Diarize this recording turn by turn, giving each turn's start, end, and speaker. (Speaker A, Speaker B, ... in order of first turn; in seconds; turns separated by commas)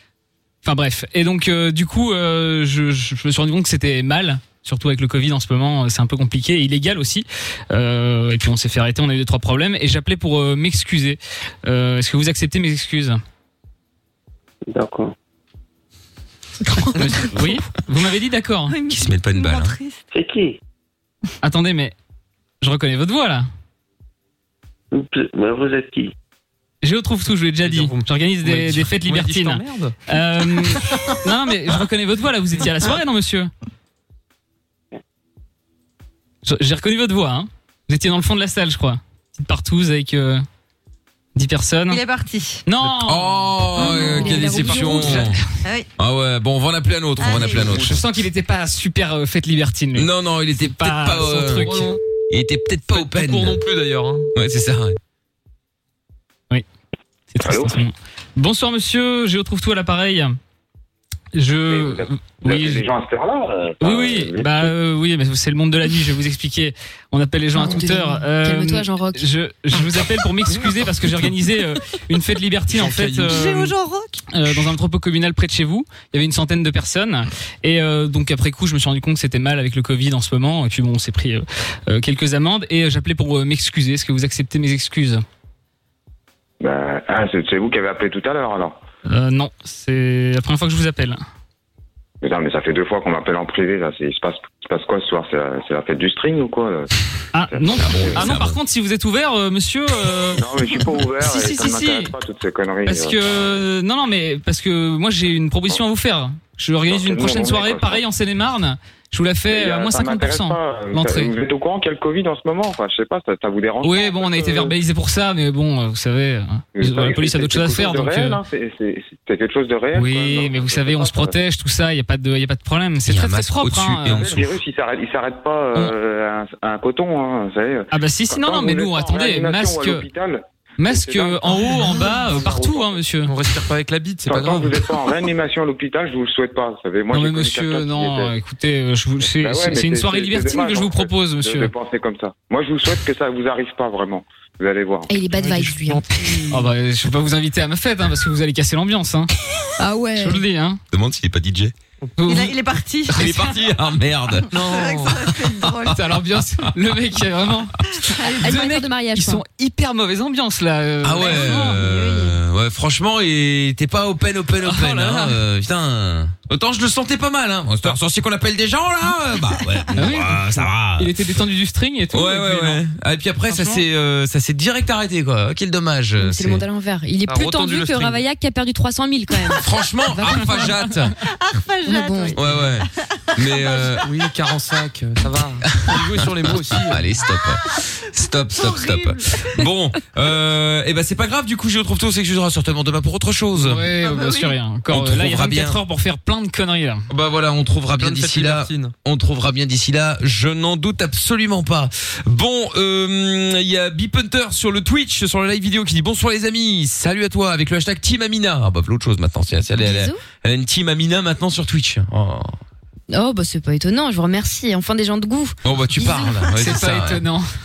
Speaker A: 0.6-13.2, Speaker B: 14.7-15.1, Speaker C: 16.7-17.3, Speaker D: 17.0-17.3, Speaker A: 17.1-18.7, Speaker C: 18.7-20.0, Speaker E: 18.9-19.7, Speaker B: 20.1-20.6, Speaker A: 21.4-21.9, Speaker A: 22.6-23.5, Speaker B: 24.9-26.1, Speaker A: 26.8-33.5, Speaker D: 27.6-29.9, Speaker A: 36.4-40.4, Speaker A: 41.3-42.0, Speaker C: 41.9-42.6, Speaker A: 42.6-45.3, Speaker E: 43.0-45.4, Speaker F: 43.8-45.3, Speaker C: 43.8-45.0, Speaker C: 45.6-45.9, Speaker E: 46.0-48.0, Speaker C: 47.2-47.8, Speaker A: 47.6-51.9, Speaker E: 49.9-51.7, Speaker D: 51.6-52.0, Speaker E: 52.3-53.6, Speaker D: 52.9-54.3, Speaker E: 54.3-55.0, Speaker A: 57.3-60.4, Speaker B: 57.4-57.7, Speaker A: 61.3-62.9, Speaker B: 61.7-64.7, Speaker A: 63.8-73.7, Speaker F: 67.5-69.2, Speaker D: 72.7-73.5, Speaker C: 73.2-74.2, Speaker A: 74.3-85.2, Speaker B: 86.6-88.8, Speaker A: 89.1-91.2, Speaker B: 92.2-96.9, Speaker A: 97.3-102.1, Speaker B: 97.4-98.4, Speaker E: 97.8-98.6, Speaker B: 100.3-103.2, Speaker A: 102.8-111.3, Speaker B: 106.8-108.0, Speaker B: 109.5-114.7, Speaker A: 113.8-118.4, Speaker B: 116.7-121.4, Speaker A: 119.9-124.4, Speaker E: 123.0-124.6, Speaker B: 124.0-133.0, Speaker A: 127.9-130.0, Speaker A: 130.8-133.3, Speaker D: 133.3-134.9, Speaker B: 134.2-138.3, Speaker A: 137.1-141.7, Speaker B: 139.2-145.1, Speaker F: 145.1-146.1, Speaker D: 145.4-146.5, Speaker A: 146.5-149.3, Speaker F: 149.8-150.4, Speaker A: 150.2-150.8, Speaker E: 150.9-151.7, Speaker A: 152.2-152.5, Speaker C: 152.2-153.4, Speaker E: 153.1-154.5, Speaker A: 153.2-153.4, Speaker C: 154.5-156.0, Speaker D: 154.5-155.3, Speaker E: 155.4-156.7, Speaker A: 155.8-157.8, Speaker C: 158.1-158.6, Speaker A: 158.4-161.9, Speaker F: 158.4-159.4, Speaker E: 161.0-171.1, Speaker C: 161.4-161.9, Speaker A: 164.7-165.3, Speaker A: 169.9-172.8, Speaker E: 172.1-176.6, Speaker A: 173.5-173.8, Speaker F: 176.2-180.7, Speaker D: 177.3-178.2, Speaker E: 179.6-181.1, Speaker C: 181.2-184.1, Speaker F: 181.8-182.4, Speaker E: 182.3-184.0, Speaker D: 184.0-187.0, Speaker E: 185.7-193.8, Speaker C: 188.6-189.4, Speaker A: 193.6-197.1, Speaker C: 194.0-194.5, Speaker E: 194.9-195.8, Speaker E: 197.1-212.5, Speaker D: 198.0-198.9, Speaker F: 209.8-210.2, Speaker F: 213.1-215.6, Speaker E: 215.6-217.2, Speaker A: 216.5-217.4